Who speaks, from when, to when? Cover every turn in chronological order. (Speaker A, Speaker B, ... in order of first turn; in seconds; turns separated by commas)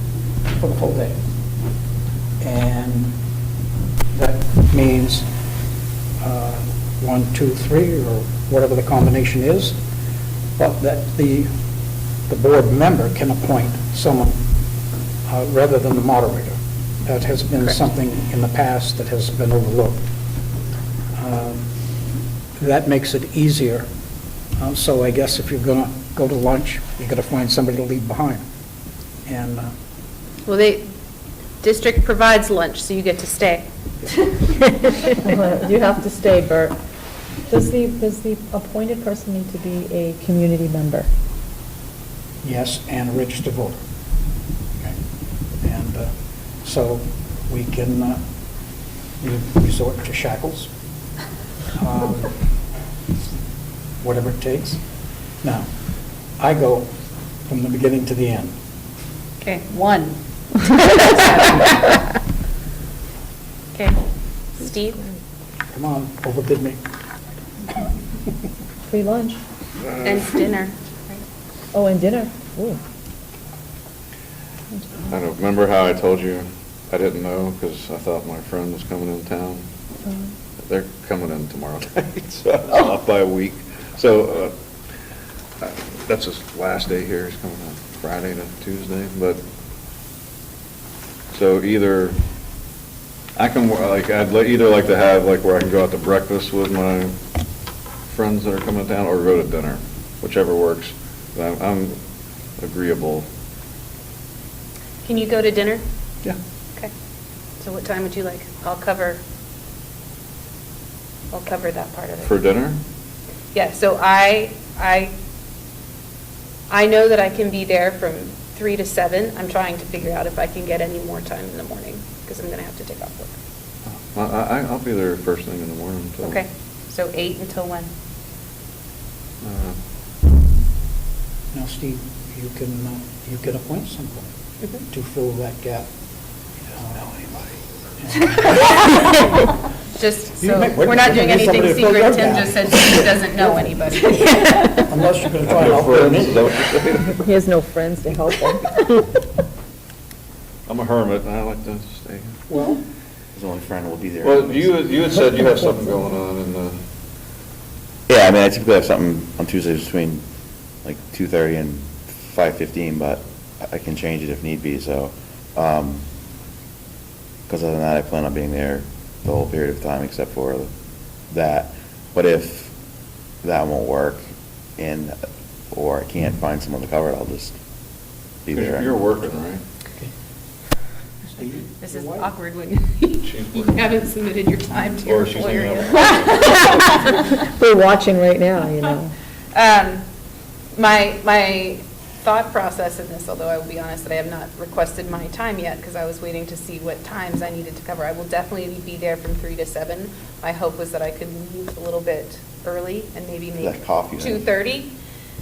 Speaker A: 0.5-1.2, Speaker A: 2.4-3.2, Speaker A: 4.1-5.3, Speaker A: 6.2-9.8, Speaker A: 10.6-11.5, Speaker A: 12.3-14.5, Speaker A: 15.3-20.0, Speaker A: 21.1-21.7, Speaker A: 22.6-23.9, Speaker A: 24.6-28.4, Speaker A: 29.3-29.7, Speaker B: 30.5-30.9, Speaker B: 31.6-33.7, Speaker C: 34.7-36.8, Speaker C: 37.5-41.1, Speaker A: 42.4-43.8, Speaker A: 45.6-48.2, Speaker A: 49.2-50.7, Speaker A: 51.8-52.3, Speaker A: 54.0-54.8, Speaker A: 55.4-55.7, Speaker A: 56.4-56.9, Speaker A: 57.5-58.6, Speaker B: 59.4-62.0, Speaker B: 64.6-65.1, Speaker A: 65.7-66.8, Speaker C: 68.9-69.4, Speaker D: 69.9-70.2, Speaker B: 70.0-71.2, Speaker C: 71.7-72.8, Speaker D: 75.1-79.7, Speaker D: 80.6-84.5, Speaker D: 85.6-89.4, Speaker D: 91.3-92.2, Speaker D: 93.4-97.1, Speaker D: 98.1-102.0, Speaker D: 102.6-103.3, Speaker B: 105.0-105.8, Speaker B: 107.6-109.2, Speaker B: 111.3-112.4, Speaker D: 112.2-112.8, Speaker B: 113.5-115.1, Speaker B: 116.7-123.4, Speaker D: 123.9-126.4, Speaker B: 126.2-127.9, Speaker D: 129.4-129.8, Speaker A: 131.5-134.3, Speaker A: 134.9-135.9, Speaker A: 136.7-137.5, Speaker A: 138.0-139.1, Speaker B: 140.0-144.8, Speaker A: 140.4-146.5, Speaker D: 145.4-147.2, Speaker C: 147.1-149.2, Speaker D: 150.7-152.4, Speaker A: 152.5-152.8, Speaker E: 153.3-154.9, Speaker D: 154.2-156.8, Speaker E: 158.1-160.2, Speaker E: 160.8-166.1, Speaker E: 167.5-170.7, Speaker E: 171.3-172.7, Speaker E: 173.4-175.2, Speaker E: 175.7-177.6, Speaker E: 178.4-179.0, Speaker D: 178.5-179.6, Speaker A: 181.3-182.3, Speaker B: 181.8-187.4, Speaker D: 183.2-183.9, Speaker D: 185.0-186.6, Speaker C: 186.3-189.1, Speaker B: 189.5-190.1, Speaker B: 190.8-204.9, Speaker E: 203.6-204.4